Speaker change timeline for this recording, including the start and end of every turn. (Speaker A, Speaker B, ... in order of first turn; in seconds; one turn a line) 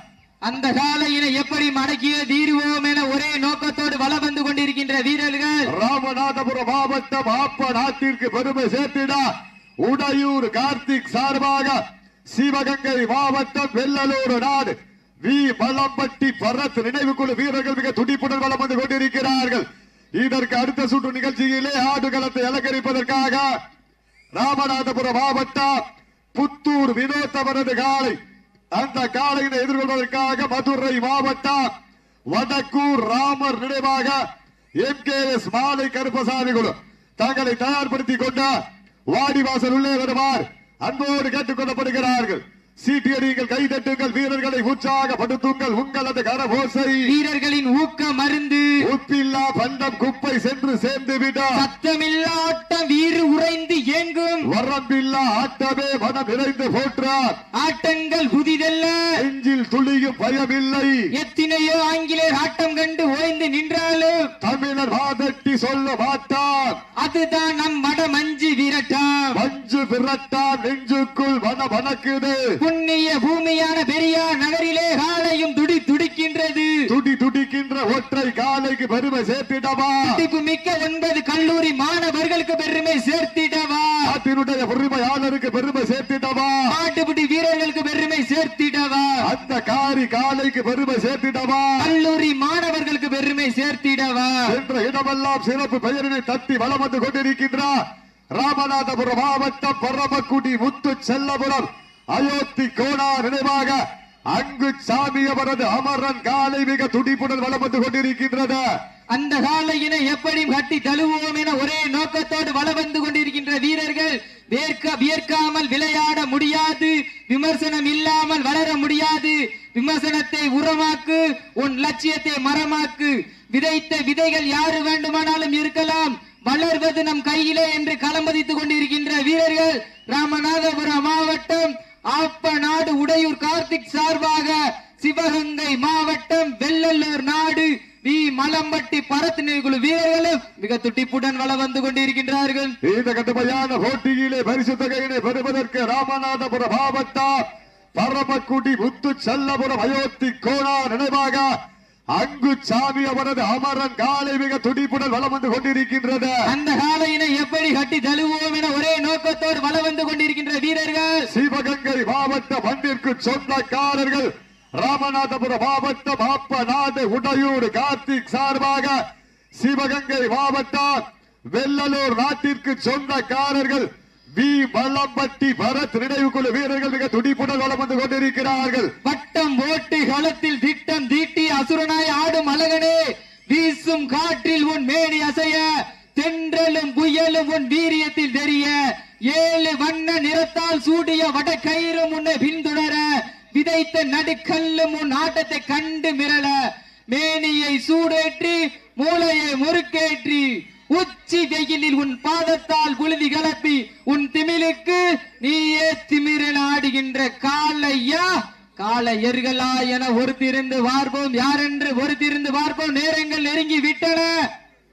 Speaker A: 0.4-5.7
Speaker B: 5.7-19.6
Speaker B: 20.2-23.5
Speaker B: 24.4-25.8
Speaker B: 26.3-28.2
Speaker B: 28.7-31.7
Speaker B: 32.3-34.2
Speaker B: 34.8-38.5
Speaker B: 39.1-47.1
Speaker A: 47.0-48.8
Speaker B: 48.8-51.6
Speaker A: 51.5-54.5
Speaker B: 54.5-57.4
Speaker A: 57.5-59.2
Speaker B: 59.2-61.0
Speaker A: 61.1-64.3
Speaker B: 64.4-66.8
Speaker A: 67.0-69.4
Speaker B: 69.3-72.4
Speaker A: 72.6-76.8
Speaker B: 76.9-80.2
Speaker A: 80.0-84.1
Speaker B: 84.1-86.6
Speaker A: 86.7-89.2
Speaker B: 89.2-91.9
Speaker A: 91.8-94.5
Speaker B: 94.5-97.8
Speaker B: 98.4-108.6
Speaker A: 109.1-142.8
Speaker B: 142.8-147.4
Speaker B: 148.0-151.5
Speaker B: 152.1-156.4
Speaker A: 156.5-161.3
Speaker B: 161.3-169.0
Speaker B: 169.6-178.9
Speaker A: 179.0-196.6
Speaker A: 197.1-214.3